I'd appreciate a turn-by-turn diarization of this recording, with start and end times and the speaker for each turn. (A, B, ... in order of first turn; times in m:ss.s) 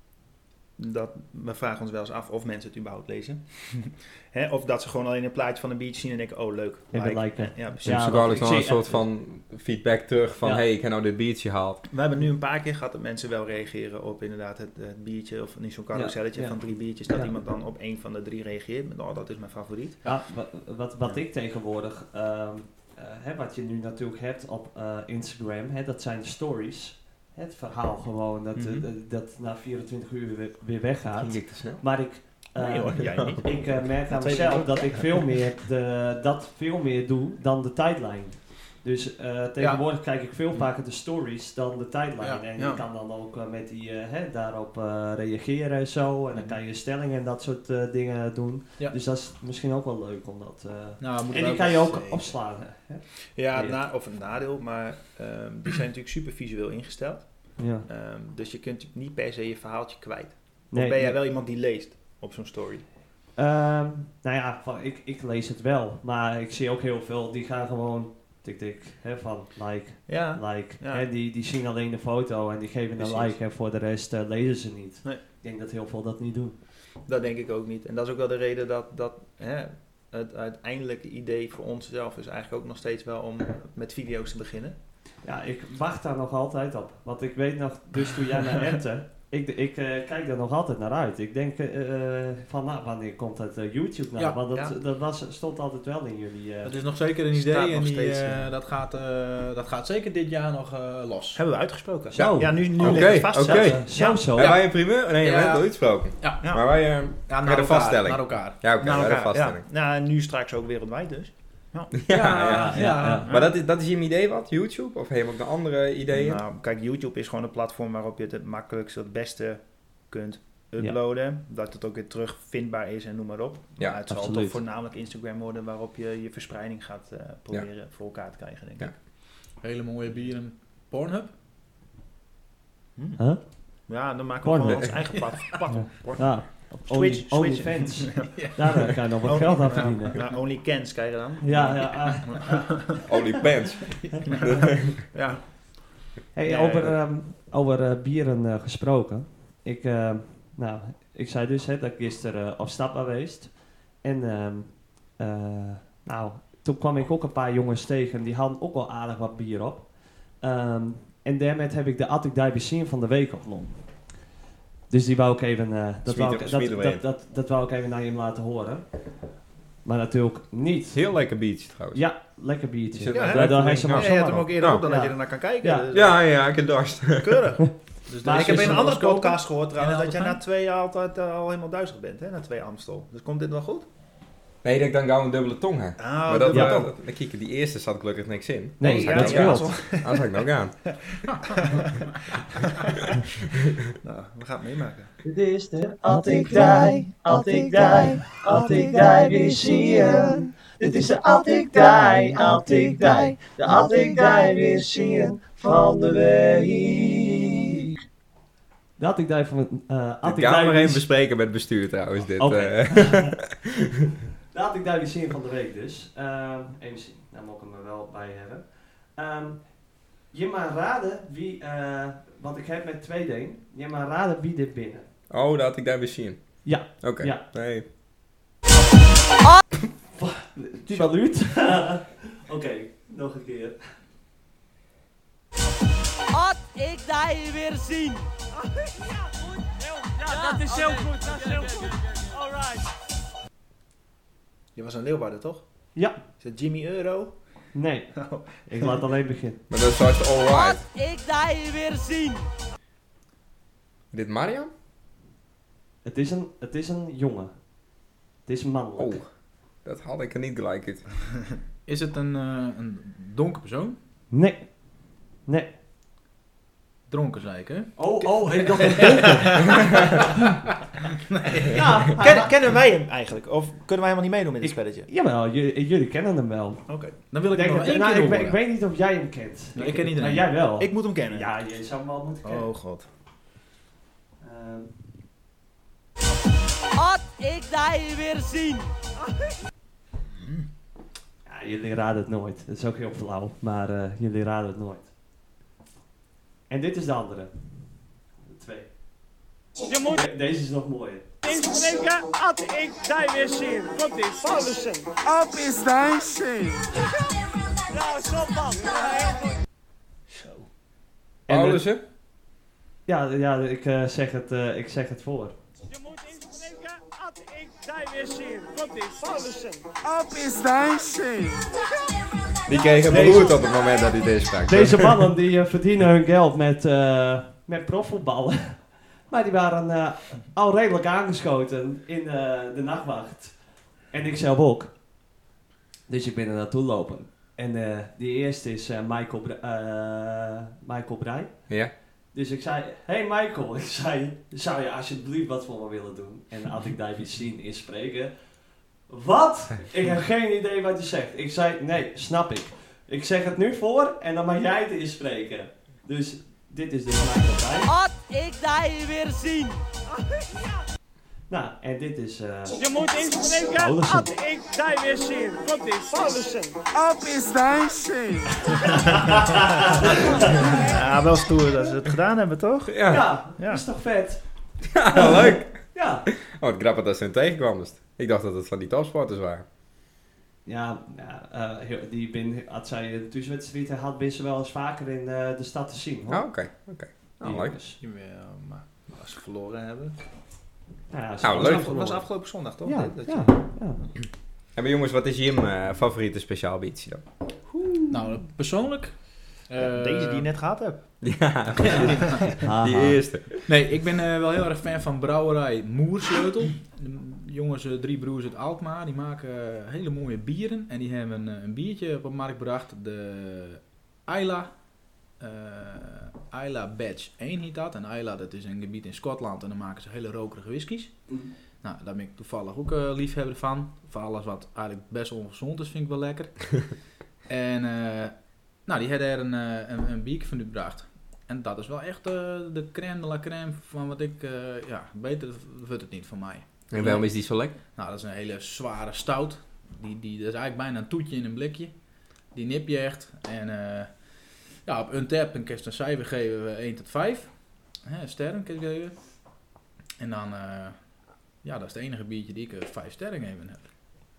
0:00.8-0:08.5 A
0:06.9-0:09.0 B
0:07.8-0:11.8 C
0:11.9-0:20.1 A
0:15.9-0:17.3 B
0:20.0-0:53.8 B
0:28.6-0:28.9 A
0:31.2-0:32.1 C
0:32.6-0:35.3 A
0:33.0-0:33.4 C
0:39.6-0:39.8 D
0:42.6-0:42.8 A
0:51.0-0:52.4 D
0:53.4-1:02.9 A
0:57.6-0:57.9 B
1:00.7-1:01.2 B
1:03.4-1:16.6 B
1:10.1-1:11.1 A
1:13.0-1:13.4 A
1:17.0-1:24.8 A
1:25.2-1:36.8 B
1:36.6-1:41.4 D
1:37.3-1:38.5 A
1:41.4-1:44.4 A
1:42.1-1:44.5 B
1:42.2-1:49.6 C
1:44.4-1:48.7 D
1:46.4-1:46.7 A
1:48.8-1:52.0 A
1:52.0-1:56.4 C
1:52.1-1:53.3 D
1:52.4-1:53.3 B
1:53.3-1:53.5 A
1:56.1-2:08.9 A
2:04.1-2:04.6 B
2:09.6-2:11.3 D
2:13.0-2:13.2 A
2:13.9-2:23.0 A
2:14.4-2:15.1 B
2:15.7-2:20.2 B
2:21.4-2:22.6 B
2:23.0-2:25.0 C
2:24.3-2:27.0 A
2:26.3-2:44.1 B
2:44.9-2:49.1 B
2:46.1-2:47.0 C
2:49.8-2:51.0 B
2:50.9-2:52.0 C
2:51.9-2:55.9 B
2:52.9-2:54.8 C
2:53.1-2:56.4 A
2:55.9-2:57.5 C
2:57.2-2:57.7 A
2:58.1-3:00.4 D
2:58.2-2:59.0 B
2:58.2-3:03.9 A
3:04.6-3:10.9 C
3:06.0-3:06.9 A
3:06.5-3:06.8 B
3:08.8-3:09.8 B
3:08.8-3:10.5 A
3:11.3-3:11.8 D
3:11.6-3:12.0 A
3:12.6-3:13.2 A
3:14.0-3:15.1 A
3:15.2-3:27.9 E
3:16.1-3:20.2 B
3:22.0-3:22.7 B
3:29.0-3:31.1 B
3:30.2-3:33.6 C
3:32.4-3:33.5 B
3:34.5-3:45.1 B
3:45.3-3:47.9 C
3:46.6-3:47.4 B
3:50.2-3:54.0 B
3:56.3-3:58.3 F
3:59.0-4:02.8 F
4:04.8-4:09.0 A
4:06.0-4:06.2 B
4:07.7-4:09.6 B
4:09.7-4:10.8 C
4:10.5-4:12.5 F
4:14.1-4:14.7 C
4:16.0-4:19.2 B
4:19.0-4:21.0 C
4:21.9-4:24.0 D
4:24.3-4:25.7 B
4:27.1-4:29.2 D
4:28.0-4:29.6 B
4:28.8-4:30.0 A
4:31.6-4:35.1 A
4:31.7-4:32.5 B
4:34.6-4:42.7 B
4:36.9-4:37.2 A
4:37.3-4:38.6 D
4:39.8-4:40.5 D
4:40.8-4:41.5 A
4:42.4-4:43.1 A
4:44.4-4:44.9 B
4:47.0-4:49.0 F
4:50.4-4:50.7 A
4:51.5-4:55.1 B
4:56.7-4:57.7 B
4:58.4-4:58.9 B
4:59.8-5:00.2 F
5:00.1-5:01.3 B
5:01.4-5:05.1 F
5:05.2-5:07.0 G
5:07.9-5:09.5 F
5:10.3-5:10.7 A
5:11.5-5:11.9 B
5:11.5-5:12.0 C
5:13.1-5:15.6 B
5:15.9-5:19.9 F
5:20.0-5:21.7 G
5:22.7-5:25.3 C
5:23.1-5:23.6 B
5:24.7-5:35.0 B
5:36.1-5:57.9 B
5:57.9-6:00.8 F
6:01.5-6:02.8 B
6:02.8-6:06.8 F
6:03.8-6:04.3 B
6:06.9-6:08.6 G
6:08.8-6:09.9 A
6:10.6-6:13.8 A
6:12.9-6:13.3 C
6:13.1-6:16.3 B
6:14.9-6:19.6 C
6:20.6-6:26.6 B
6:26.3-6:27.8 C
6:27.4-6:28.0 B
6:28.0-6:30.2 A
6:31.1-6:34.0 B
6:31.4-6:31.9 C
6:31.4-6:33.7 A
6:34.7-6:37.2 C
6:37.8-6:38.1 B
6:38.1-6:40.5 D
6:39.8-6:42.5 A
6:41.2-6:43.7 C
6:41.8-6:42.4 D
6:42.6-6:43.2 B
6:43.7-7:33.9 D
7:16.9-7:17.8 C